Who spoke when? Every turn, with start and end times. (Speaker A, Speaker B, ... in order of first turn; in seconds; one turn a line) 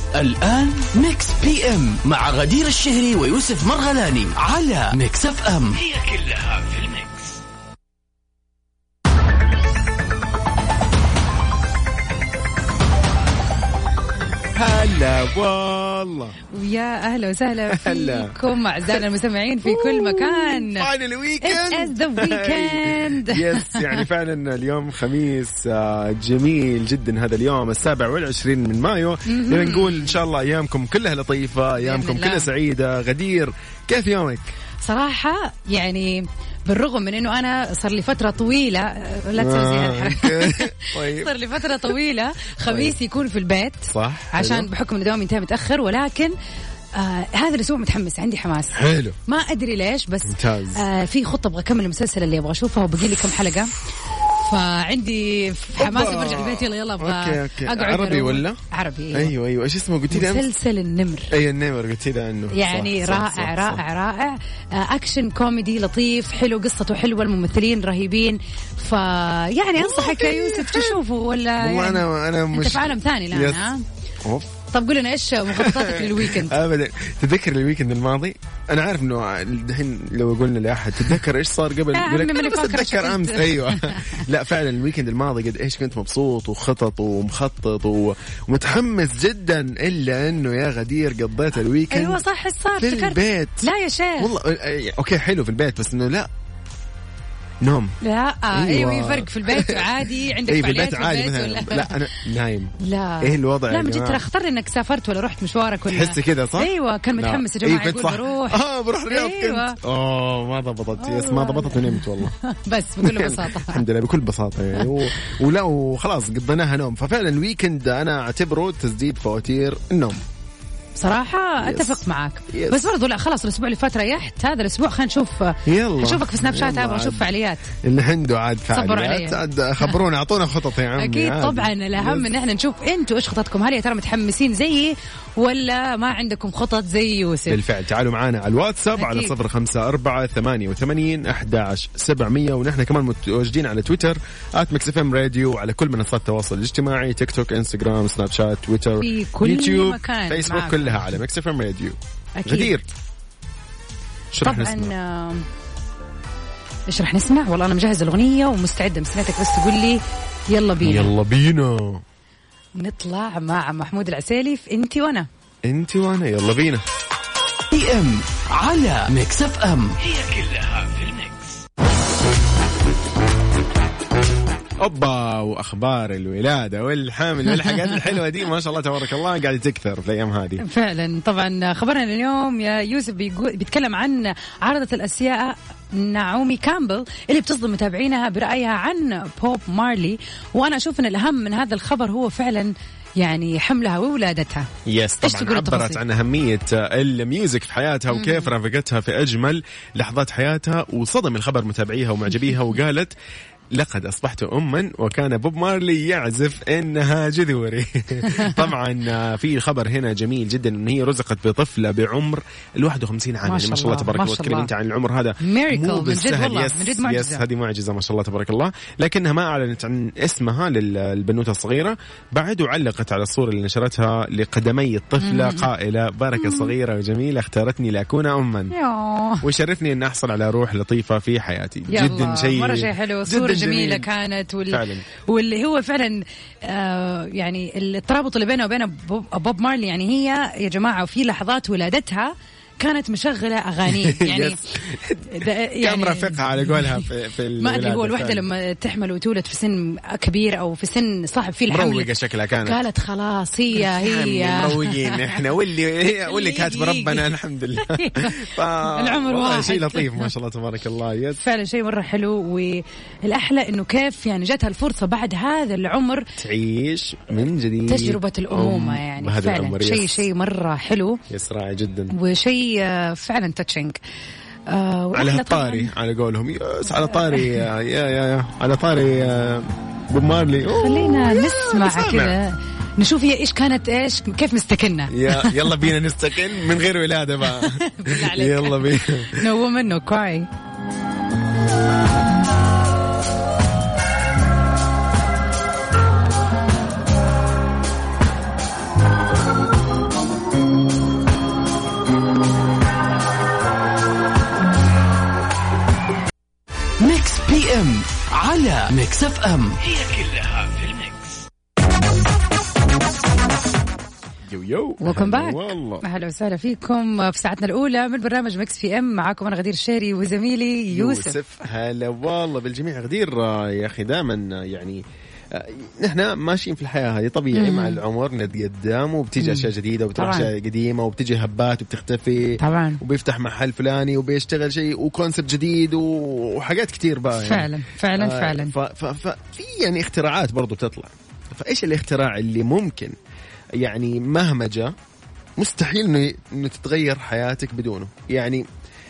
Speaker A: 0.1-6.9
Speaker B: 14.5-16.4
Speaker C: 16.5-20.9
Speaker B: 17.7-18.4
Speaker B: 19.6-34.5
Speaker C: 21.4-24.1
Speaker C: 29.3-30.2
Speaker C: 31.8-32.5
Speaker C: 34.8-46.3
Speaker B: 39.4-42.0
Speaker B: 42.6-43.0
Speaker B: 43.9-44.7
Speaker C: 47.0-53.7
Speaker B: 48.7-49.2
Speaker B: 50.2-50.8
Speaker C: 54.4-59.3
Speaker B: 55.8-58.6
Speaker B: 59.1-60.5
Speaker C: 60.1-61.3
Speaker B: 61.3-63.8
Speaker C: 62.5-73.8
Speaker B: 69.8-71.0
Speaker B: 71.6-73.7
Speaker B: 74.2-74.6
Speaker C: 74.7-76.6
Speaker B: 75.5-92.2
Speaker C: 81.9-84.2
Speaker C: 91.9-94.3
Speaker B: 92.8-96.3
Speaker B: 97.6-98.0
Speaker C: 98.0-102.0
Speaker B: 98.5-104.2
Speaker C: 102.8-109.8
Speaker B: 105.9-112.3
Speaker C: 111.0-113.8
Speaker B: 113.0-120.2
Speaker C: 121.0-127.7
Speaker B: 121.6-122.9
Speaker B: 125.7-132.3
Speaker C: 128.7-130.0
Speaker C: 131.0-137.6
Speaker B: 137.5-152.8
Speaker C: 138.9-139.3
Speaker C: 149.0-151.2
Speaker C: 152.4-152.7
Speaker B: 154.3-154.9
Speaker C: 154.4-155.5
Speaker C: 156.9-161.1
Speaker B: 160.8-162.0
Speaker C: 162.8-165.3
Speaker B: 165.7-166.8
Speaker A: 167.7-171.3
Speaker B: 174.8-180.6
Speaker C: 180.6-194.7
Speaker B: 194.9-203.1
Speaker C: 195.2-196.0
Speaker C: 198.1-198.5
Speaker B: 203.7-228.7
Speaker C: 213.4-214.7
Speaker C: 215.4-217.4
Speaker C: 225.2-225.7
Speaker C: 226.4-226.7
Speaker C: 228.7-229.4
Speaker B: 229.4-234.1
Speaker C: 231.9-244.6
Speaker B: 234.7-235.1
Speaker B: 243.9-248.5
Speaker C: 245.3-247.1
Speaker C: 247.6-255.4
Speaker B: 251.7-252.8
Speaker B: 253.7-261.4
Speaker C: 256.2-257.3
Speaker C: 257.8-260.3
Speaker C: 261.3-266.3
Speaker B: 266.4-270.3
Speaker C: 267.9-271.2
Speaker B: 271.3-272.1
Speaker C: 272.1-274.0
Speaker C: 274.7-275.9
Speaker B: 275.1-282.4
Speaker C: 277.2-277.6
Speaker C: 280.7-285.8
Speaker B: 285.1-289.5
Speaker C: 287.5-290.5
Speaker A: 307.0-311.1
Speaker B: 314.5-316.0
Speaker C: 315.0-321.4
Speaker B: 320.9-343.1
Speaker C: 327.5-328.0
Speaker C: 329.4-330.5
Speaker C: 332.6-333.0
Speaker C: 337.4-338.7
Speaker B: 343.8-344.9
Speaker B: 345.6-348.6